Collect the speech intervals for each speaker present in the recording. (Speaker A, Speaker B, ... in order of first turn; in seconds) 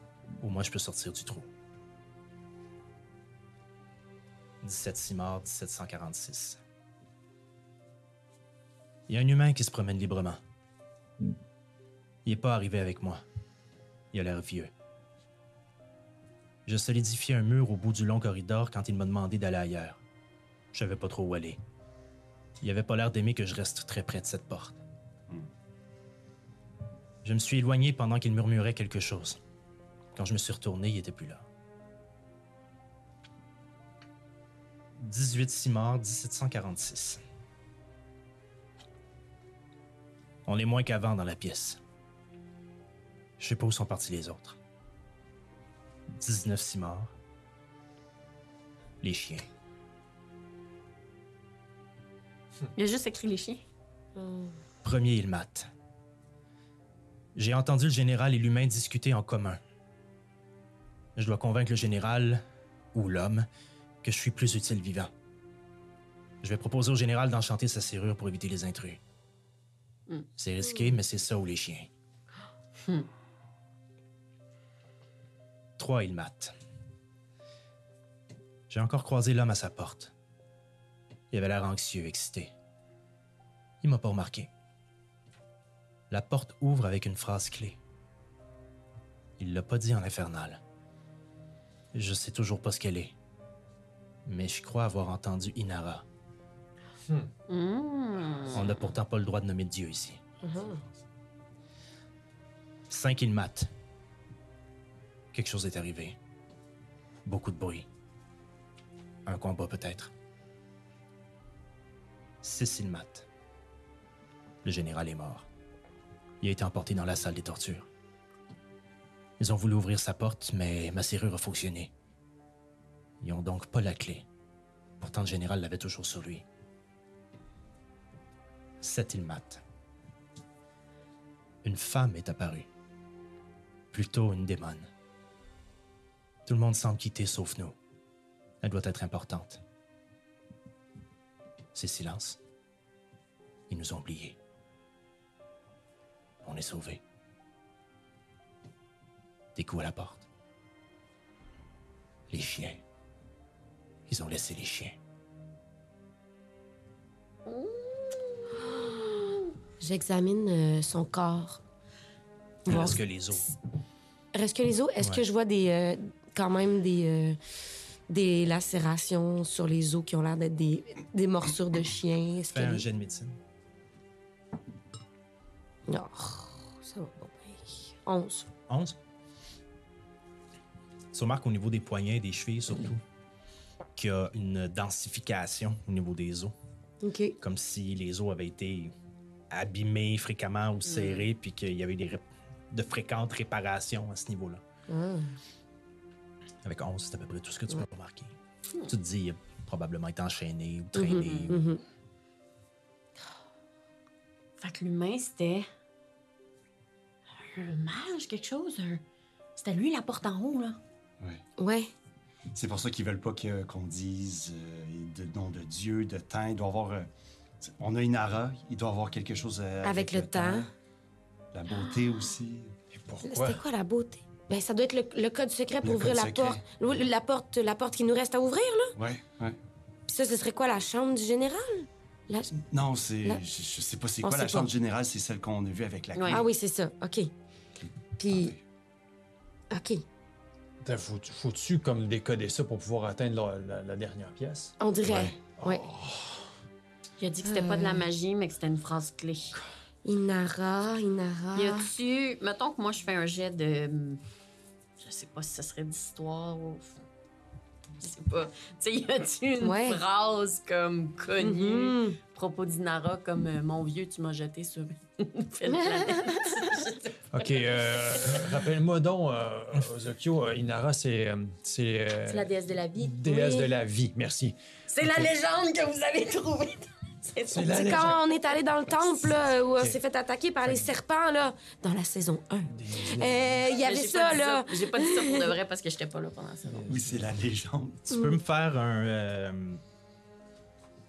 Speaker A: 0.4-1.5, 4.6-6.6, 9.1-10.4, 12.2-13.2, 14.1-14.7, 16.7-20.0, 20.7-21.6, 22.6-24.8, 27.2-29.4, 30.1-31.5, 35.0-37.2, 40.5-41.8, 43.4-44.6, 46.1-47.1, 49.0-49.5, 54.8-55.7, 57.4-59.6, 61.2-63.5, 64.0-65.1, 66.4-69.0, 70.4-71.9, 75.8-76.5, 78.7-80.1, 81.3-82.5, 83.8-84.5, 86.1-87.8, 89.4-90.6, 91.9-93.1, 94.3-96.0, 98.5-100.2, 102.9-103.7, 105.3-106.2, 107.2-107.9, 109.3-110.1, 112.4-113.3, 114.6-115.5, 116.4-117.9, 119.4-121.9, 123.2-124.3, 125.0-126.5, 128.8-129.6, 131.6-132.7, 133.9-134.9, 136.5-137.8, 138.6-139.6, 141.7-142.4, 143.7-144.4, 146.4-147.0, 149.6-150.3, 152.3-152.8, 154.1-155.0, 162.7-163.5, 172.5-173.4, 178.7-179.0, 181.1-183.0, 184.0-186.6, 187.4-188.9, 189.5-194.6, 196.6-201.7, 288.1-289.8
Speaker B: 52.8-53.6, 97.5-98.8, 157.5-159.5, 190.9-191.3, 204.6-205.7, 207.5-209.0, 209.6-210.8, 236.2-236.4, 247.2-249.6, 251.6-254.2, 255.0-257.0, 258.0-268.4, 272.3-273.7, 274.9-278.2, 283.8-286.8
Speaker C: 54.2-54.5, 100.4-100.8, 159.8-161.6, 162.7-163.0, 164.3-167.4, 168.1-172.9, 175.9-178.5, 187.0-187.4, 194.9-195.3, 200.9-201.8, 211.6-211.9, 219.8-220.7, 223.3-228.9, 230.1-232.5, 234.2-234.7, 236.3-237.3, 238.2-238.6, 239.7-240.0, 244.8-245.8, 247.4-248.1, 250.0-251.9, 259.6-260.0, 261.4-262.2, 266.0-266.5, 277.7-285.5
Speaker D: 212.5-217.1, 217.6-220.7, 221.5-222.7, 225.8-227.0, 229.0-229.6, 232.6-236.5, 238.3-238.6, 245.1-245.4, 286.9-288.1
Speaker E: 222.9-223.6, 240.8-244.7, 245.6-246.4, 267.3-275.3, 277.5-278.2, 282.7-283.7, 286.7-287.3